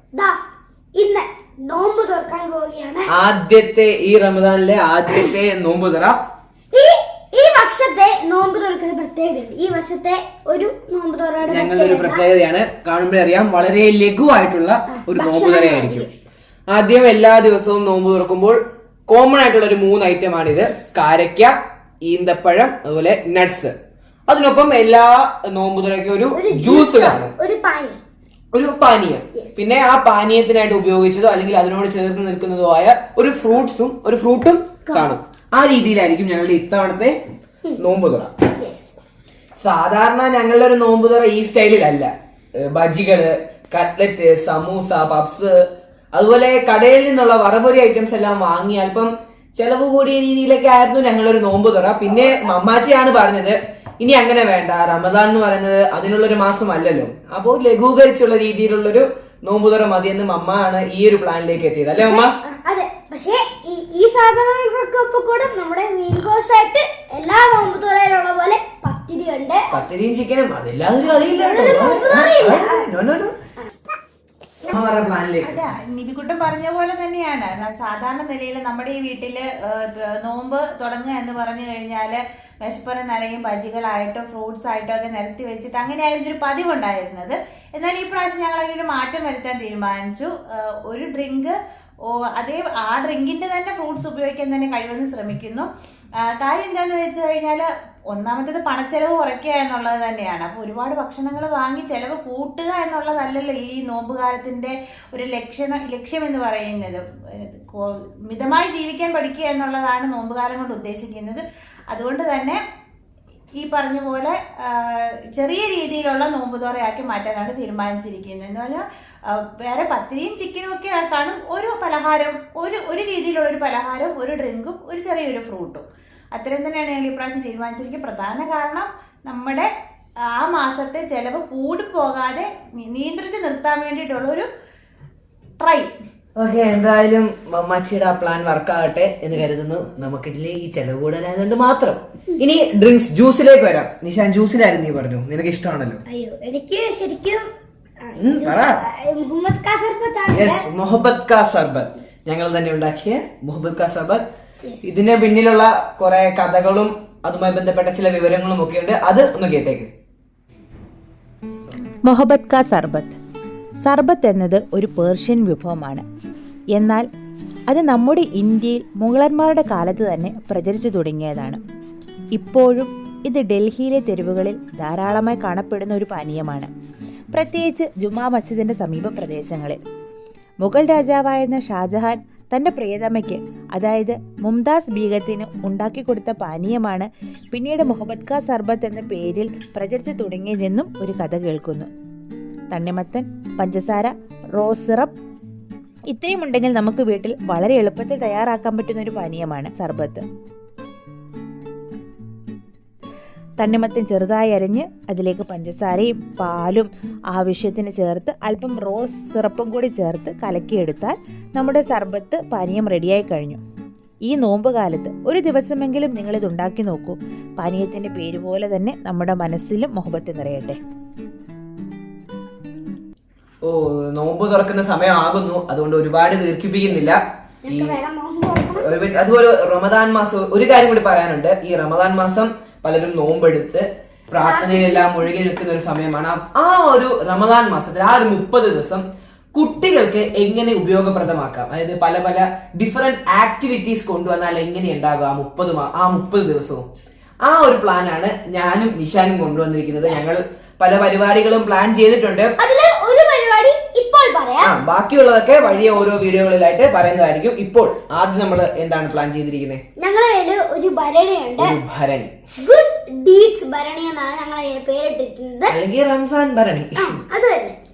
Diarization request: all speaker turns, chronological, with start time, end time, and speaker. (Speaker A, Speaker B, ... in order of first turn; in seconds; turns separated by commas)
Speaker A: 0.1-0.4, Speaker A: 0.9-3.1, Speaker B: 3.1-6.2, Speaker A: 6.7-12.2, Speaker B: 11.4-16.1, Speaker A: 14.9-16.1, Speaker B: 16.7-23.7, Speaker B: 24.3-27.4, Speaker A: 26.3-28.0, Speaker B: 28.5-37.2, Speaker A: 29.4-29.6, Speaker A: 34.9-35.1, Speaker B: 37.8-38.3, Speaker A: 38.6-38.9, Speaker B: 39.6-62.4, Speaker A: 62.0-69.7, Speaker B: 69.7-73.3, Speaker A: 71.3-72.9, Speaker B: 74.7-75.6, Speaker C: 75.4-95.7, Speaker C: 96.2-112.6, Speaker C: 113.6-129.7, Speaker C: 130.3-134.5, Speaker C: 135.6-135.9, Speaker B: 136.4-146.0, Speaker A: 146.1-147.4, Speaker A: 148.1-150.7, Speaker B: 148.2-148.8, Speaker B: 150.3-154.2, Speaker B: 154.8-159.9, Speaker D: 162.1-163.2, Speaker D: 163.8-166.0, Speaker D: 166.8-167.1, Speaker D: 167.7-171.6, Speaker D: 172.3-176.7, Speaker D: 177.3-179.8, Speaker D: 180.6-191.9, Speaker D: 192.7-195.1, Speaker D: 196.1-200.2, Speaker D: 203.6-213.6, Speaker D: 214.3-220.8, Speaker B: 223.6-228.0, Speaker A: 227.7-228.9, Speaker B: 228.8-246.8, Speaker A: 234.3-235.3, Speaker B: 247.4-252.5, Speaker A: 252.6-254.7, Speaker B: 254.6-259.8, Speaker A: 260.0-261.8, Speaker B: 261.6-262.3, Speaker A: 262.6-265.8, Speaker B: 265.7-267.2, Speaker A: 267.0-267.8